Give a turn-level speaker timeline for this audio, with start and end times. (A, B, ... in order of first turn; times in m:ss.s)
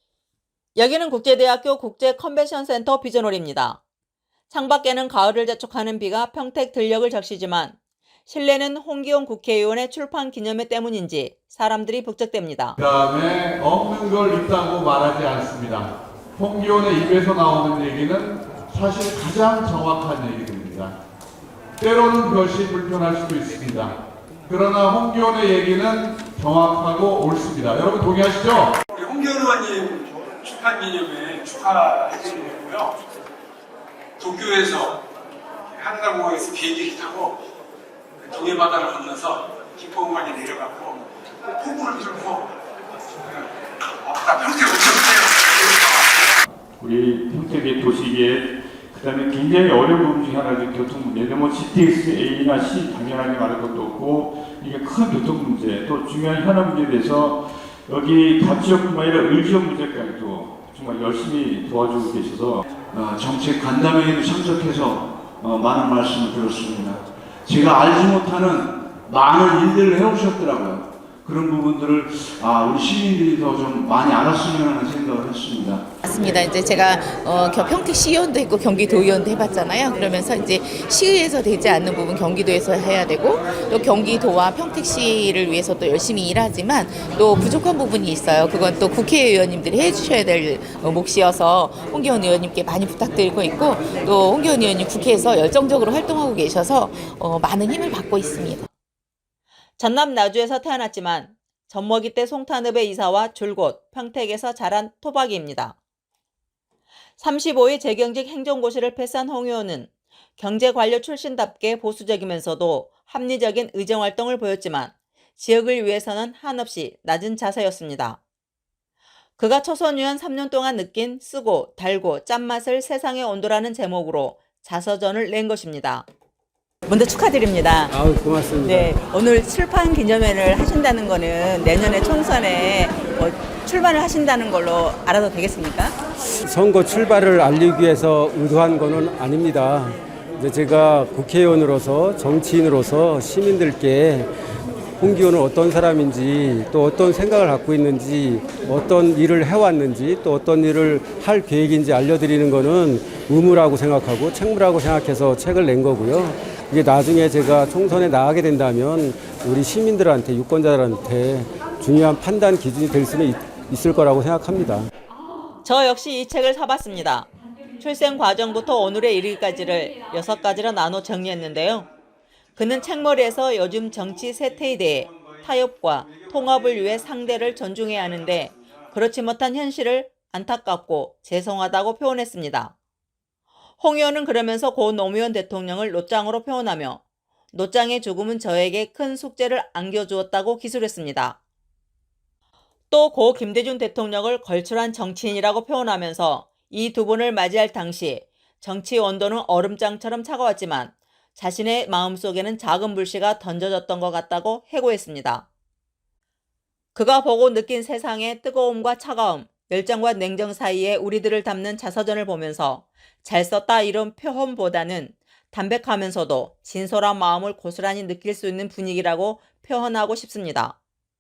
0:00.8-0:03.8 A
0:04.5-0:07.8 A
0:08.3-0:12.8 A
0:12.8-0:21.0 B
0:21.8-0:24.0 B
0:24.5-0:28.8 B
0:28.9-0:33.0 C
0:34.2-0:35.0 C
0:35.8-0:37.4 C
0:38.2-0:42.5 C
0:43.2-0:43.5 C
0:44.0-0:46.2 C
0:46.8-1:02.6 D
1:02.9-1:15.9 E
1:16.0-1:38.7 F
1:39.8-1:45.8 A
1:47.2-1:58.2 A
1:59.4-2:06.1 A
2:06.9-2:07.9 A
2:07.9-2:08.9 G
2:08.6-2:16.0 A
2:16.4-2:24.3 G
2:25.0-2:44.9 G
2:45.6-2:47.3 A
2:47.8-2:51.9 A
2:52.6-3:02.7 A
3:03.8-3:07.0 A
3:07.5-3:11.4 A
3:12.9-3:25.5 A
3:27.0-3:40.8 A